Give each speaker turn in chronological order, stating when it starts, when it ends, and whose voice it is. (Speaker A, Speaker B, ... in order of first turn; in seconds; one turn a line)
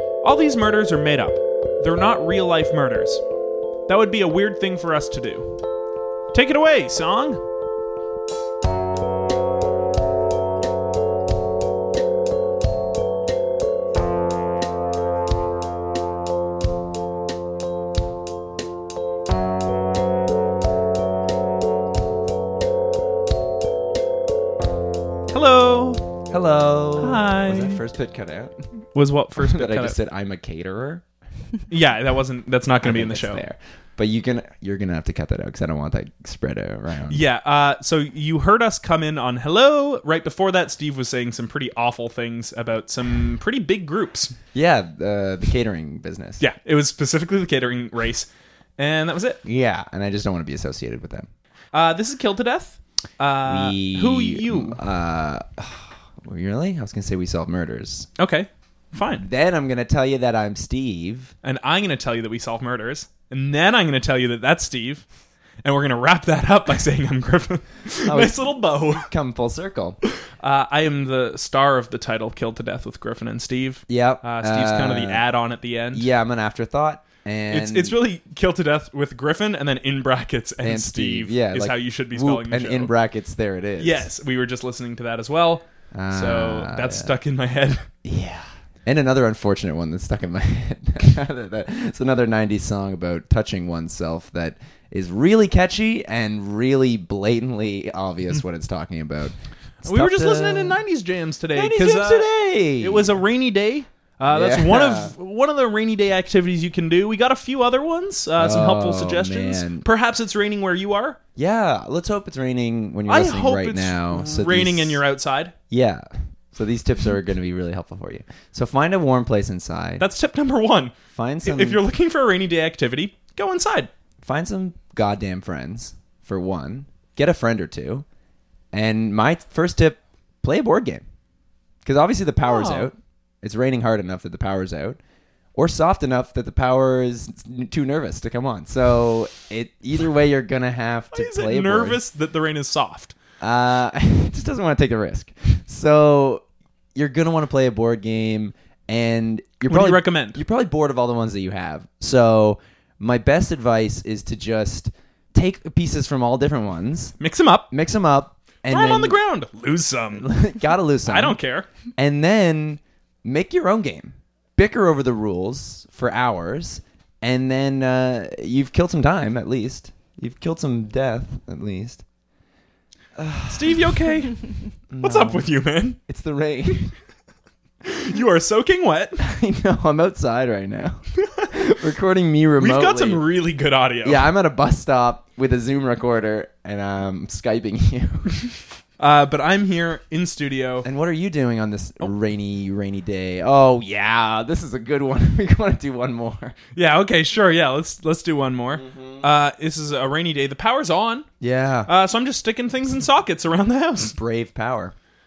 Speaker A: 0.2-3.2
Speaker A: 3.9-5.6
Speaker A: 6.3-7.4
Speaker A: 25.3-26.1
Speaker B: 26.3-28.6
Speaker A: 27.0-27.8
Speaker A: 28.9-30.0
Speaker B: 29.4-31.0
Speaker A: 31.7-33.4
Speaker B: 32.8-37.2
Speaker A: 37.1-44.4
Speaker B: 44.5-46.4
Speaker A: 46.4-49.4
Speaker B: 49.4-51.3
Speaker A: 51.7-54.8
Speaker B: 53.5-58.1
Speaker A: 58.2-59.2
Speaker B: 59.2-61.3
Speaker A: 61.4-65.0
Speaker A: 65.6-69.1
Speaker B: 68.0-70.0
Speaker A: 70.2-76.1
Speaker B: 73.9-75.2
Speaker B: 75.9-78.0
Speaker A: 77.5-82.9
Speaker B: 80.6-84.1
Speaker A: 83.8-87.9
Speaker B: 85.9-87.1
Speaker B: 88.0-100.8
Speaker A: 99.8-111.2
Speaker B: 101.5-103.2
Speaker B: 104.3-105.1
Speaker B: 108.4-109.9
Speaker B: 111.4-115.0
Speaker A: 113.1-115.5
Speaker B: 115.7-120.1
Speaker A: 120.0-123.9
Speaker B: 121.1-121.8
Speaker B: 124.2-128.1
Speaker B: 128.7-131.0
Speaker B: 131.8-135.0
Speaker A: 132.4-132.9
Speaker B: 135.6-142.0
Speaker A: 141.1-143.2
Speaker B: 143.4-146.4
Speaker B: 146.9-157.2
Speaker A: 149.7-150.4
Speaker A: 157.2-157.7
Speaker B: 157.7-159.2
Speaker A: 158.7-160.3
Speaker B: 160.2-161.4
Speaker A: 161.1-161.7
Speaker B: 162.0-172.0
Speaker B: 173.2-173.8
Speaker A: 173.5-174.4
Speaker B: 174.9-175.5
Speaker A: 175.0-176.0
Speaker B: 176.0-176.9
Speaker A: 177.8-179.2
Speaker B: 179.2-181.0
Speaker A: 181.2-181.5
Speaker B: 181.5-183.2
Speaker A: 182.6-184.3
Speaker B: 184.0-188.6
Speaker A: 189.0-190.9
Speaker B: 190.8-196.6
Speaker A: 196.8-201.3
Speaker B: 198.8-199.3
Speaker B: 201.4-201.9
Speaker A: 201.9-204.2
Speaker B: 204.0-204.9